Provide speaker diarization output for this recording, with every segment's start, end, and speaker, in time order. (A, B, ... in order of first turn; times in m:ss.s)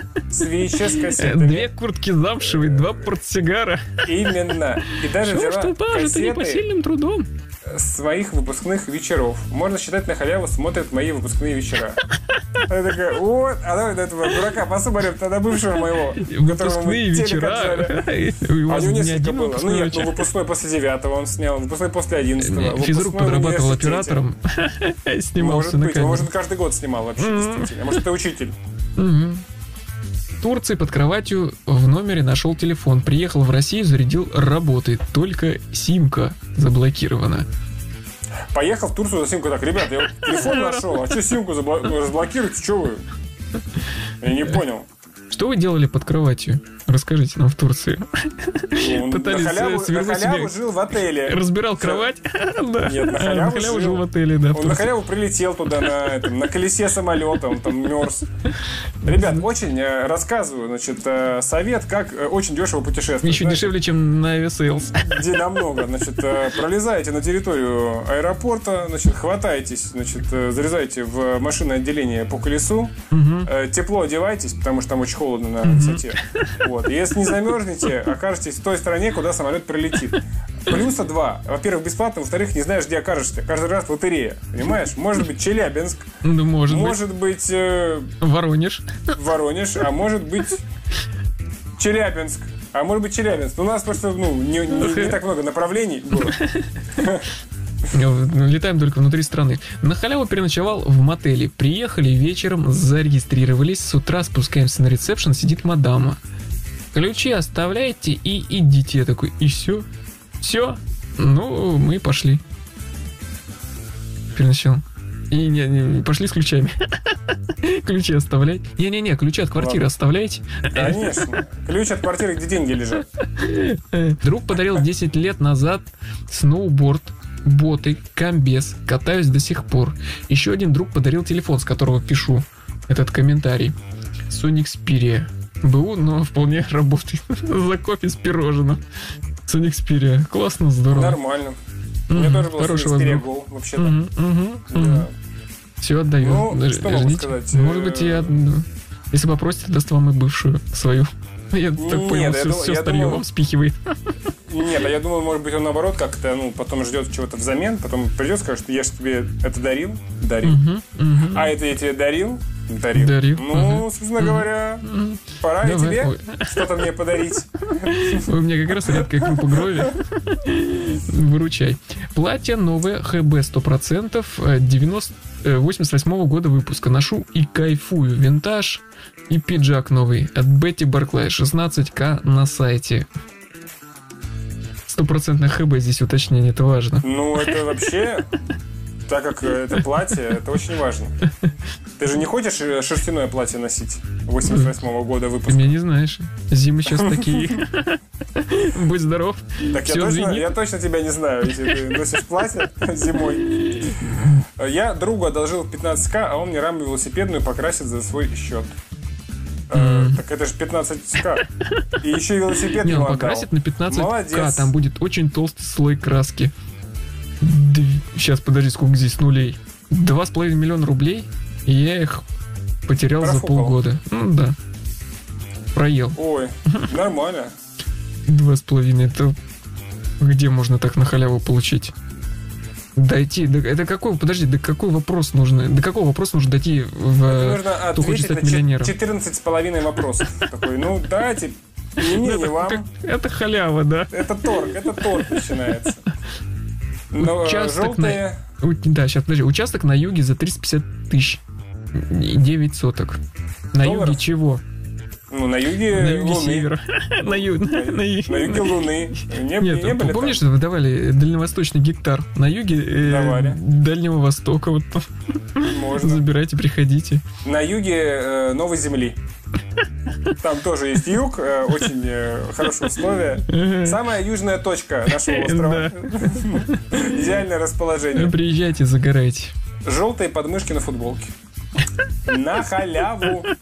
0:00.3-0:01.7 A
0:00.6-0:07.3 B
0:02.4-0:03.1 A
0:04.0-0:06.7 A
0:07.6-0:12.0 A
0:12.6-0:18.0 A
0:16.2-0:20.3 B
0:18.7-0:24.2 A
0:22.4-0:26.3 B
0:25.4-0:28.6 A
0:27.2-0:28.0 B
0:29.0-0:29.4 B
0:30.4-0:37.5 B
0:38.5-0:43.0 A
0:40.3-0:41.0 B
0:44.2-0:44.9 A
0:45.3-0:50.6 B
0:48.8-0:52.1 A
0:51.2-0:55.0 B
0:52.8-0:58.2 A
0:58.5-0:59.3 B
0:59.0-1:03.8 A
1:03.2-1:05.3 B
1:05.0-1:26.1 A
1:13.1-1:13.5 B
1:15.6-1:16.6 B
1:26.2-1:27.0 B
1:26.7-1:28.2 A
1:28.2-1:29.1 B
1:29.1-1:30.6 A
1:31.8-1:36.4 A
1:34.7-1:35.2 B
1:36.1-1:37.2 B
1:37.0-1:37.3 A
1:37.9-1:46.2 B
1:46.9-1:49.9 B
1:50.4-1:52.4 B
1:54.4-2:01.4 B
1:59.6-1:59.9 A
2:00.7-2:03.1 A
2:03.2-2:13.8 B
2:14.3-2:18.8 B
2:19.5-2:21.2 B
2:20.9-2:21.6 A
2:22.1-2:24.0 A
2:22.1-2:25.1 B
2:24.7-2:25.1 A
2:25.8-2:34.2 B
2:26.2-2:28.4 A
2:31.8-2:33.2 A
2:34.5-2:40.6 A
2:40.4-2:41.5 B
2:41.2-2:44.9 A
2:43.0-2:46.7 B
2:45.4-2:50.0 A
2:47.8-3:03.1 B
3:04.9-3:07.7 B
3:07.0-3:08.3 A
3:09.1-3:11.2 A
3:12.0-3:15.8 A
3:14.4-3:14.7 B
3:15.5-3:20.6 B
3:16.9-3:17.5 A
3:19.7-3:28.8 A
3:23.4-3:24.4 B
3:29.7-3:31.5 A
3:29.7-3:30.2 B
3:31.6-3:31.9 B
3:32.0-3:34.7 A
3:32.6-3:36.5 B
3:37.4-3:42.2 B
3:42.9-3:44.6 B
3:43.2-3:43.8 A
3:45.7-3:46.9 B
3:46.2-3:47.5 A
3:48.2-3:49.4 B
3:50.2-3:51.9 B
3:53.0-3:58.9 B
3:57.2-4:02.9 A
4:02.0-4:05.7 B
4:04.1-4:06.0 A
4:07.1-4:08.4 A
4:07.2-4:11.4 B
4:11.9-4:13.2 B
4:13.7-4:14.6 B
4:13.8-4:14.2 A
4:15.3-4:16.7 A
4:15.9-4:27.2 B
4:17.2-4:20.4 A
4:23.0-4:23.6 A
4:25.6-4:26.3 A
4:27.4-4:29.2 A
4:30.4-4:38.4 A
4:33.4-4:34.0 B
4:35.1-4:37.2 B
4:38.2-4:39.5 B
4:39.8-4:41.3 A
4:42.2-4:43.5 A